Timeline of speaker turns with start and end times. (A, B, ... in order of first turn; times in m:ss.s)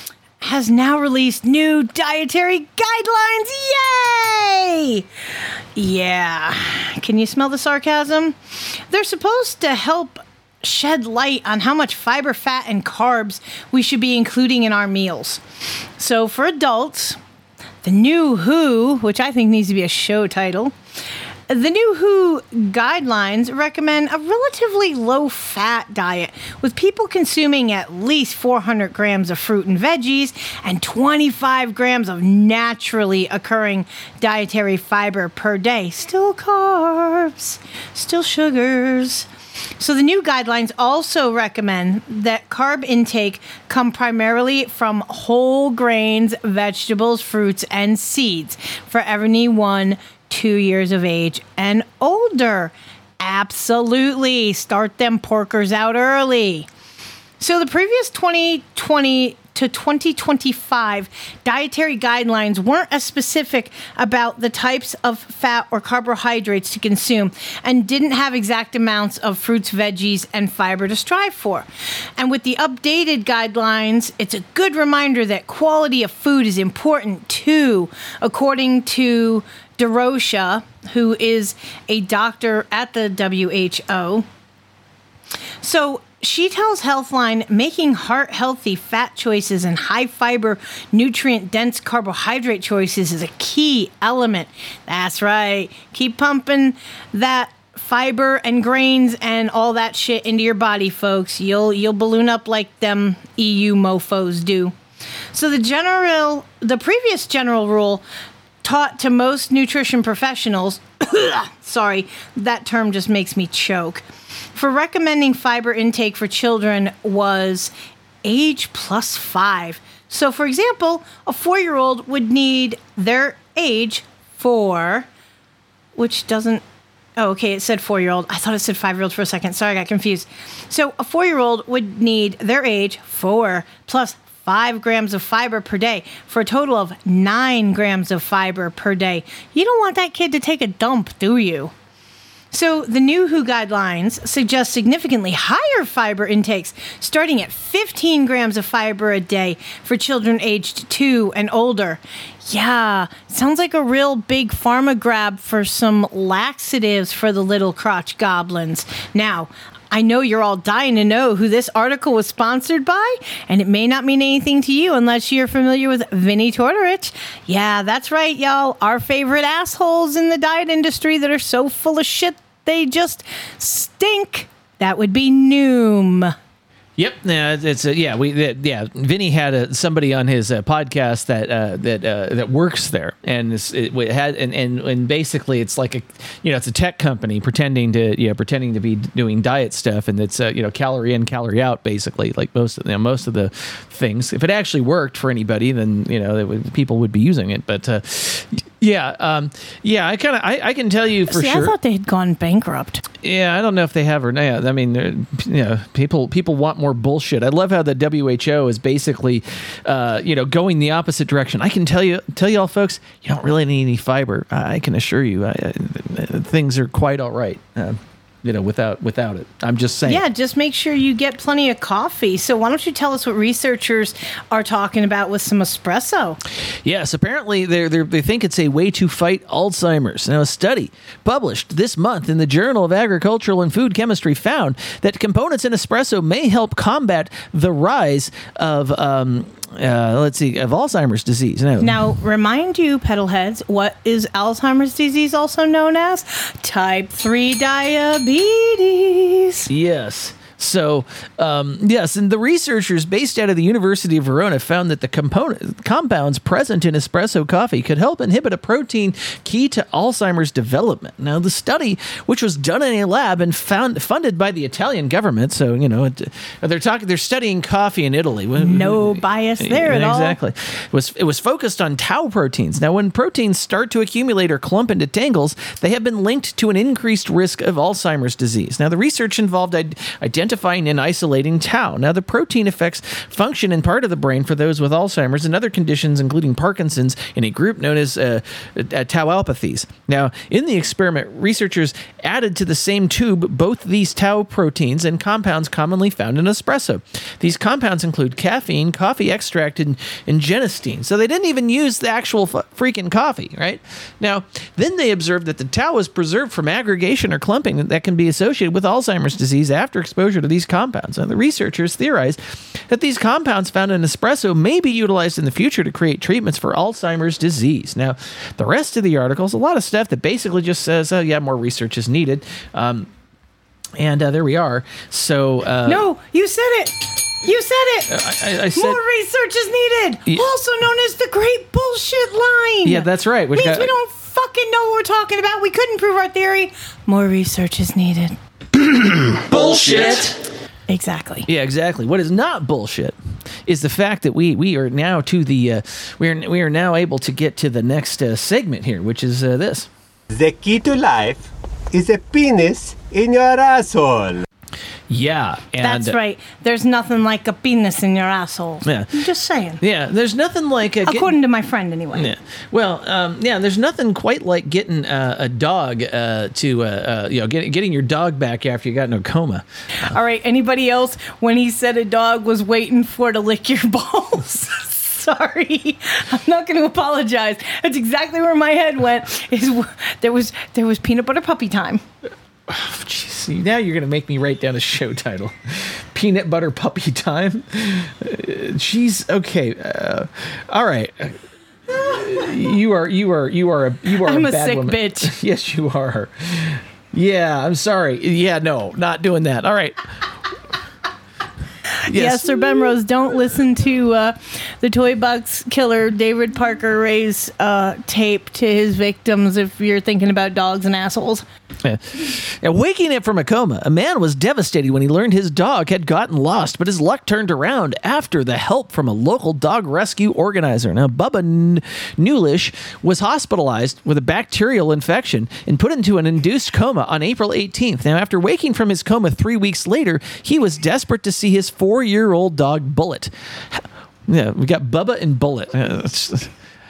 0:00.4-0:05.0 A
0:05.8-0:08.4 A
0:08.9-0:15.4 A
0:16.0-0:17.2 A
0:17.8-0:20.7 A
0:21.5-0:39.3 A
0:39.8-0:56.7 A
0:57.4-1:24.2 A
1:25.6-1:44.7 A
1:45.3-1:48.0 A
1:48.6-1:54.0 A
1:54.5-1:57.7 A
1:58.2-2:05.1 A
2:06.0-2:06.6 A
2:07.2-2:21.7 A
2:22.5-2:56.3 A
2:57.0-3:21.7 B
3:21.3-3:23.0 A
3:23.2-3:40.2 B
3:40.0-3:46.4 A
3:46.8-4:02.0 B
4:01.8-4:09.7 A
4:09.7-5:23.1 B
4:28.6-4:30.4 A
5:24.0-5:26.0 B
5:25.9-5:28.1 A
5:28.1-5:29.0 B
5:28.7-5:38.3 A
5:32.8-5:33.9 B
5:39.5-5:40.3 B
5:39.5-5:40.2 A
5:40.9-5:41.5 A
5:41.4-5:49.9 B
5:50.3-5:54.4 C
5:55.1-5:56.2 B
5:55.8-5:59.8 A
5:58.8-5:59.1 B
5:59.8-6:01.3 B
6:01.0-6:02.3 A
6:02.1-6:09.6 B
6:10.0-6:22.0 A
6:22.7-6:31.4 B
6:32.0-6:40.0 B
6:34.2-6:35.3 A
6:42.1-6:43.0 B
6:42.1-6:51.4 A
6:51.8-7:16.5 B